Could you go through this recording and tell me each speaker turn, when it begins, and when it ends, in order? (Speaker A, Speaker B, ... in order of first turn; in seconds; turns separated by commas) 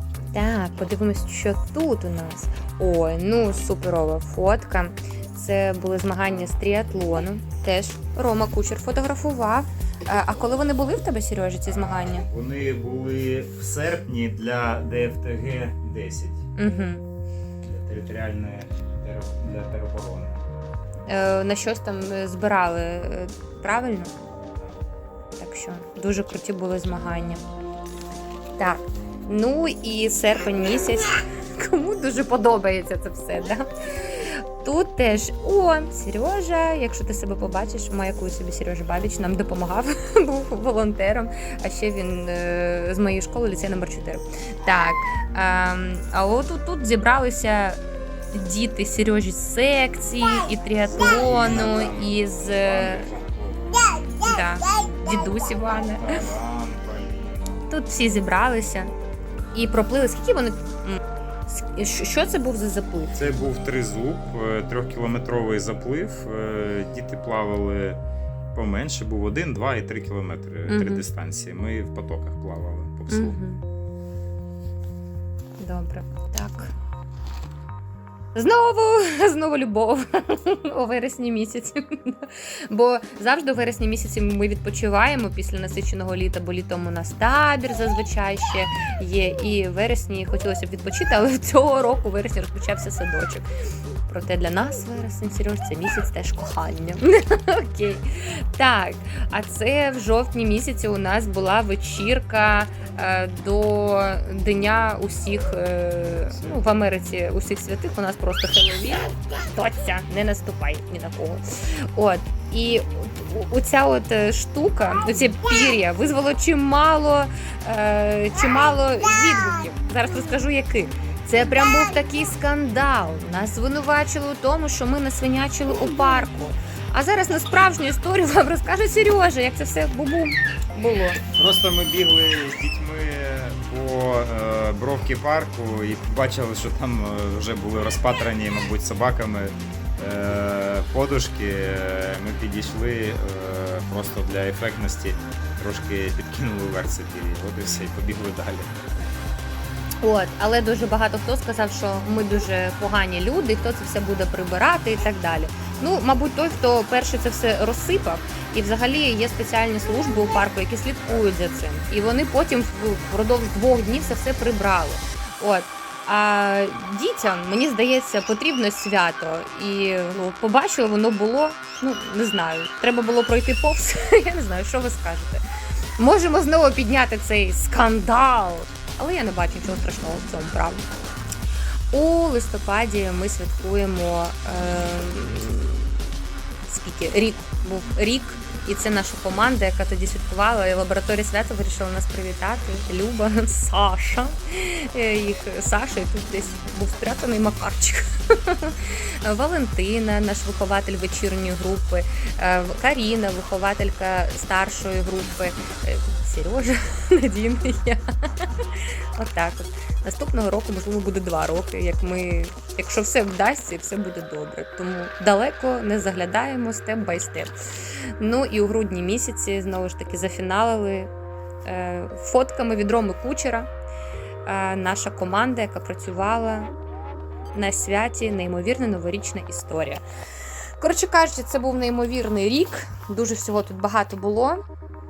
Speaker A: 0.3-12.3, Speaker B: 11.7-16.4, Speaker A: 16.6-17.0, Speaker B: 17.6-20.4, Speaker A: 21.1-24.1, Speaker A: 25.4-27.4, Speaker A: 28.6-47.8, Speaker A: 48.3-53.1, Speaker B: 50.9-53.7, Speaker A: 54.2-56.2, Speaker B: 56.0-57.6, Speaker A: 57.7-58.9, Speaker A: 59.5-63.1, Speaker B: 63.1-68.0, Speaker B: 68.5-73.4, Speaker A: 70.7-71.0, Speaker A: 73.1-73.6, Speaker A: 75.6-76.7, Speaker A: 78.3-93.5, Speaker A: 94.1-131.2, Speaker B: 106.3-106.6, Speaker B: 131.3-148.8, Speaker A: 150.0-175.4, Speaker A: 176.0-180.9, Speaker A: 181.9-185.9, Speaker A: 186.7-221.1, Speaker A: 221.6-223.7, Speaker A: 224.4-226.7, Speaker A: 227.5-230.0, Speaker A: 230.8-234.6